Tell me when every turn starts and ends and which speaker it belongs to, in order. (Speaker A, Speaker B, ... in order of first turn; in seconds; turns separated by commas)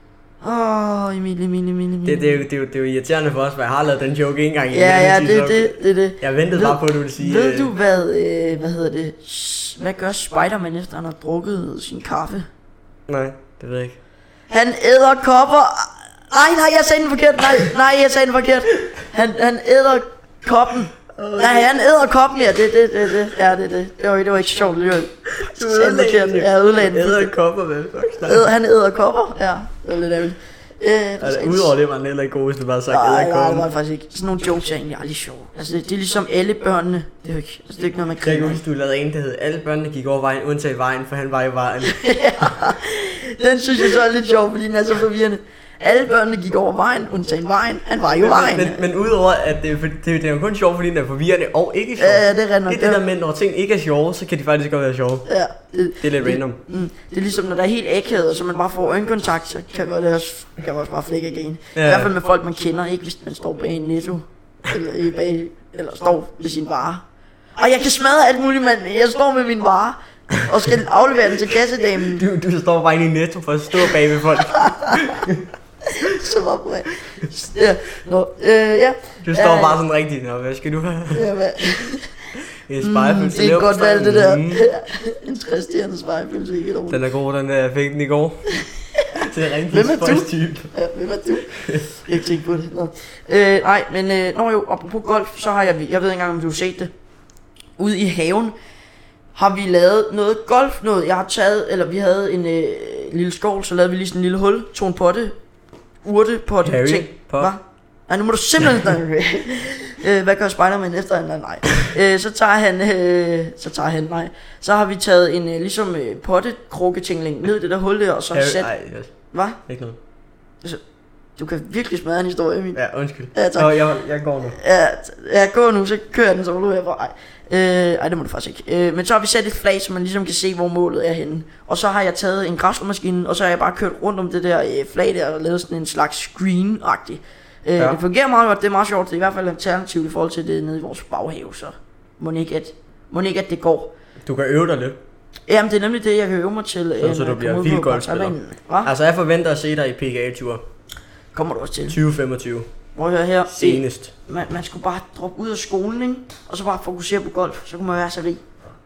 Speaker A: 0.4-2.4, Speaker B: 2.0-7.7, Speaker A: 4.7-12.5, Speaker B: 13.1-14.0, Speaker A: 14.5-27.3, Speaker B: 21.1-21.7, Speaker B: 25.3-28.5, Speaker A: 28.2-31.7, Speaker B: 31.2-33.7, Speaker A: 32.9-38.6, Speaker B: 38.2-42.0, Speaker A: 41.8-48.8, Speaker B: 48.2-55.3, Speaker A: 52.0-53.0, Speaker A: 55.3-67.0, Speaker B: 56.0-56.6, Speaker B: 61.8-62.1, Speaker A: 67.6-72.2, Speaker B: 72.0-75.5, Speaker A: 74.5-75.2, Speaker A: 75.8-79.8, Speaker B: 79.2-81.3, Speaker A: 81.1-82.2, Speaker B: 82.7-84.7, Speaker A: 82.8-87.0, Speaker B: 86.9-88.5, Speaker A: 88.6-96.9, Speaker B: 89.2-90.7, Speaker B: 91.5-91.9, Speaker A: 97.8-98.5, Speaker A: 99.3-105.3, Speaker A: 106.0-118.7, Speaker B: 106.6-107.5, Speaker B: 118.3-119.1, Speaker A: 119.3-119.6, Speaker B: 119.7-120.0, Speaker A: 121.4-122.8, Speaker B: 122.8-124.6, Speaker A: 123.3-123.8, Speaker A: 124.5-143.9, Speaker B: 144.2-145.0, Speaker A: 145.5-148.9, Speaker B: 147.0-150.7, Speaker A: 151.3-152.0, Speaker B: 151.9-152.7, Speaker A: 153.0-158.4, Speaker B: 153.5-154.1